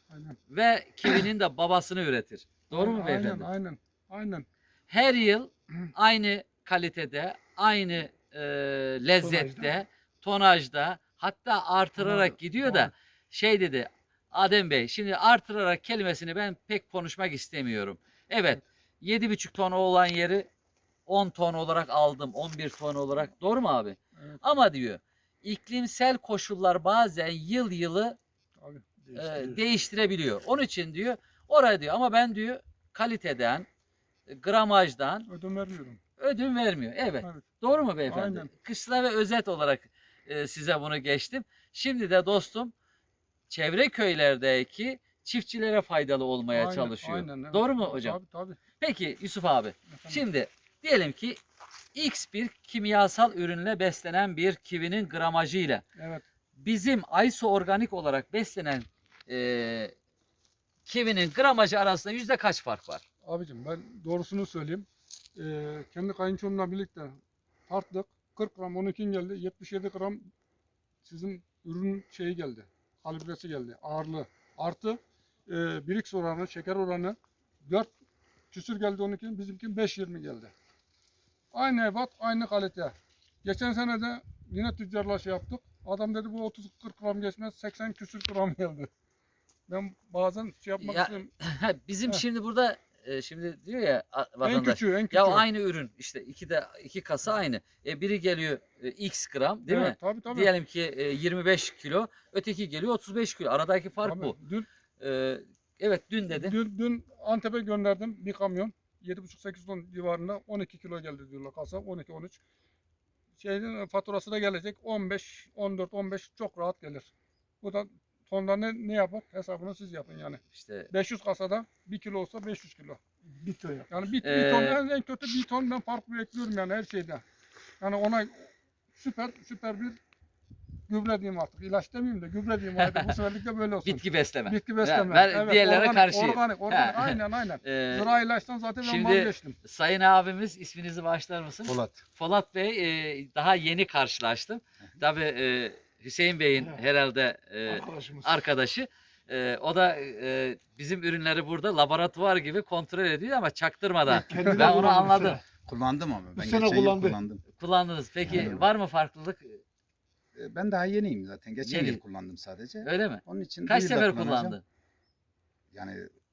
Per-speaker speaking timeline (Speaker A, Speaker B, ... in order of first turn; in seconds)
Speaker A: 0.1-0.4, 2.7-4.5, 12.0-12.9, 28.6-28.8, 35.3-36.0, 38.1-38.5, 46.5-48.6, 49.9-50.2, 56.0-56.2, 63.2-70.3, 71.0-77.9, 78.5-80.5, 81.5-88.9, 89.7-91.3, 94.4-95.5, 99.7-100.5, 104.0-104.7, 106.3-112.4, 113.4-117.1, 117.6-123.0, 123.9-127.2, 127.8-130.0, 130.9-139.6
Speaker B: 0.5-3.4, 4.9-20.5, 21.1-28.2, 29.1-33.7, 34.3-35.3, 36.2-42.7, 43.5-48.2, 48.8-51.4, 51.9-55.8, 56.5-59.9, 60.9-63.0, 90.8-104.3, 105.0-106.6, 120.5-120.9, 124.2-124.8, 132.8-133.1, 133.8-138.2, 138.8-155.4, 157.5-159.6, 161.6-162.0, 162.8-164.6
Speaker C: 3.1-3.4, 141.7-142.0, 155.6-157.4, 158.2-158.7, 160.3-164.6, 165.7-166.1
Speaker D: 9.2-9.8, 29.0-29.6, 123.3-124.0, 147.7-148.4, 154.1-155.4, 156.3-157.2